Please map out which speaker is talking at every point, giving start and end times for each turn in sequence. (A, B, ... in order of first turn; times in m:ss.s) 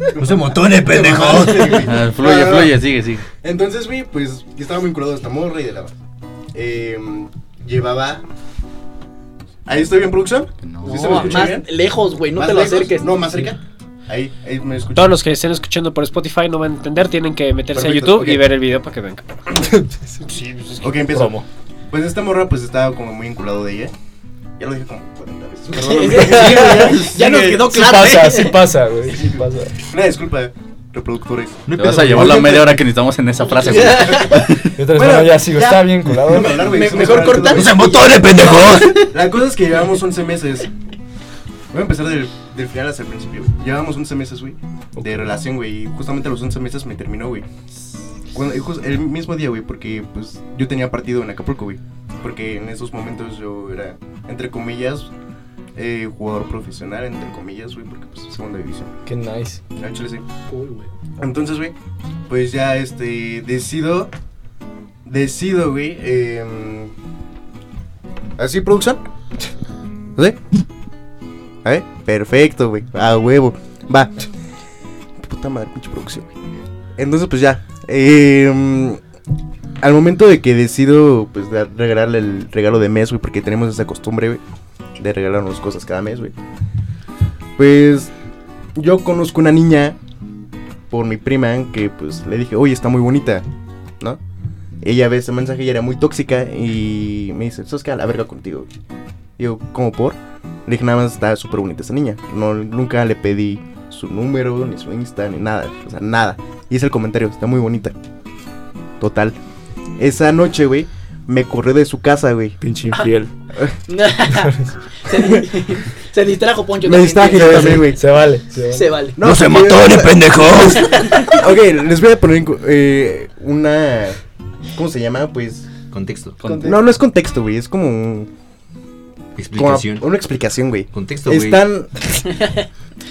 0:00.2-0:02.8 A
0:00.2-0:01.9 B
0:01.8-0:03.2 C
0:03.4-0:06.0 A
0:06.5-0:08.2 A
0:09.7-0:11.7 A
0:10.6-0:11.2 C
0:10.9-0:13.4 D
0:12.3-0:15.2 A
0:14.9-0:19.3 E
0:17.7-0:18.4 A
0:19.6-0:20.2 F
0:20.6-0:23.9 A
0:21.0-0:21.4 F
0:24.6-0:27.2 A
0:25.7-0:28.7 D
0:26.8-0:27.6 C
0:27.6-0:29.8 F
0:29.1-0:32.7 A
0:31.7-0:32.6 B
0:31.7-0:34.7 C
0:33.4-0:37.9 A
0:33.6-0:34.5 D
0:34.8-0:36.7 F
0:36.6-0:38.8 D
0:37.5-0:39.1 B
0:39.0-0:40.7 A
0:41.7-0:47.5 A
0:45.0-0:45.3 F
0:48.3-0:55.1 A
0:55.8-0:59.0 A
0:59.1-0:59.6 F
0:59.8-1:00.2 A
1:00.5-1:00.9 D
1:01.2-1:01.8 A
1:02.3-1:04.1 A
1:05.0-1:06.9 A
1:08.4-1:09.0 A
1:11.6-1:14.3 A
1:15.2-1:16.4 A
1:17.0-1:19.0 A
1:19.8-1:24.4 A
1:25.0-1:26.3 A
1:27.6-1:28.1 A
1:28.8-1:30.0 A
1:30.9-1:33.5 A
1:34.8-1:38.7 A
1:39.4-1:48.0 A
1:49.0-1:49.4 A
1:50.0-1:52.6 A
1:52.6-1:53.3 F
1:53.9-1:58.0 D
1:54.4-1:54.7 F
1:56.8-1:58.1 A
1:57.4-1:59.0 F
1:58.6-1:59.2 D
1:59.2-2:00.5 A
1:59.2-2:01.1 B
2:00.7-2:01.4 D
2:01.2-2:04.2 A
2:04.7-2:05.7 A
2:05.9-2:06.7 B
2:06.4-2:06.8 C
2:06.4-2:06.8 F
2:06.6-2:08.3 A
2:09.4-2:10.1 B
2:09.6-2:12.4 A
2:10.9-2:11.6 B